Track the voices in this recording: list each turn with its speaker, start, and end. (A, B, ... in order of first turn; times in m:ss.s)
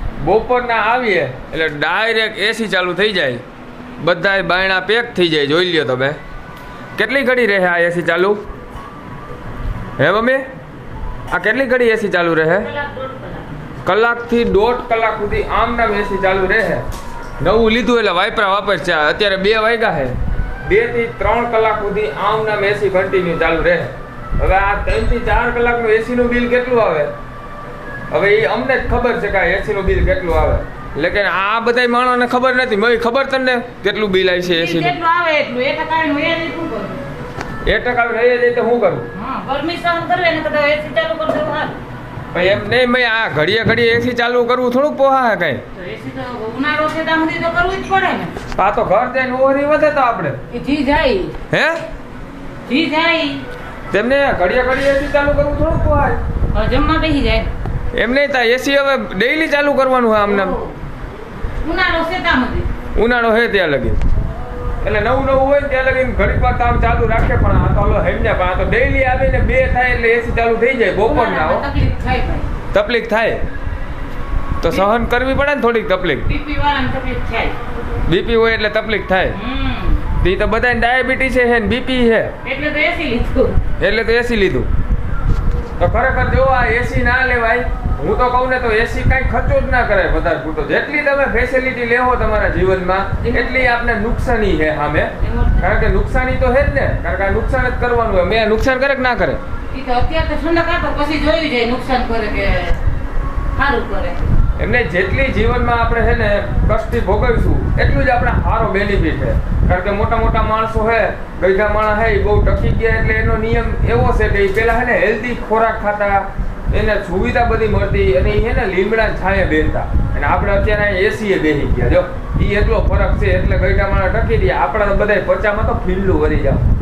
0:00.2-0:03.4 A
0:04.0-0:06.2 A
0:07.0-0:08.4 A
0:10.0-0:10.5 A
0:11.3-0:12.7 A
0:12.5-0:13.6 B
0:13.8-0:16.8 A
0:17.4-0:27.1 A
0:28.1-0:35.0 A
0:34.4-0:37.0 B
0:37.6-0:39.1 A
0:39.1-0:41.8 B
0:42.3-0:45.6 A
0:45.7-0:48.3 B
0:48.5-0:50.4 A
0:50.5-0:51.4 B
0:51.5-0:51.8 A
0:52.6-0:53.4 B
0:53.9-0:56.2 A
0:56.5-0:57.5 B
0:58.0-1:00.6 A
1:00.2-1:00.8 B
1:01.6-1:02.7 B
1:02.9-1:04.0 A
1:04.8-1:11.6 A
1:11.0-1:12.5 B
1:12.7-1:13.4 A
1:14.6-1:16.3 A
1:16.2-1:17.6 B
1:18.0-1:19.4 A
1:19.3-1:20.0 B
1:20.1-1:22.3 A
1:22.4-1:23.6 B
1:23.8-1:24.7 A
1:25.8-1:39.4 A
1:33.2-1:33.7 B
1:35.2-1:35.7 B
1:39.7-1:42.8 B
1:43.6-1:44.3 B
1:44.6-2:06.6 A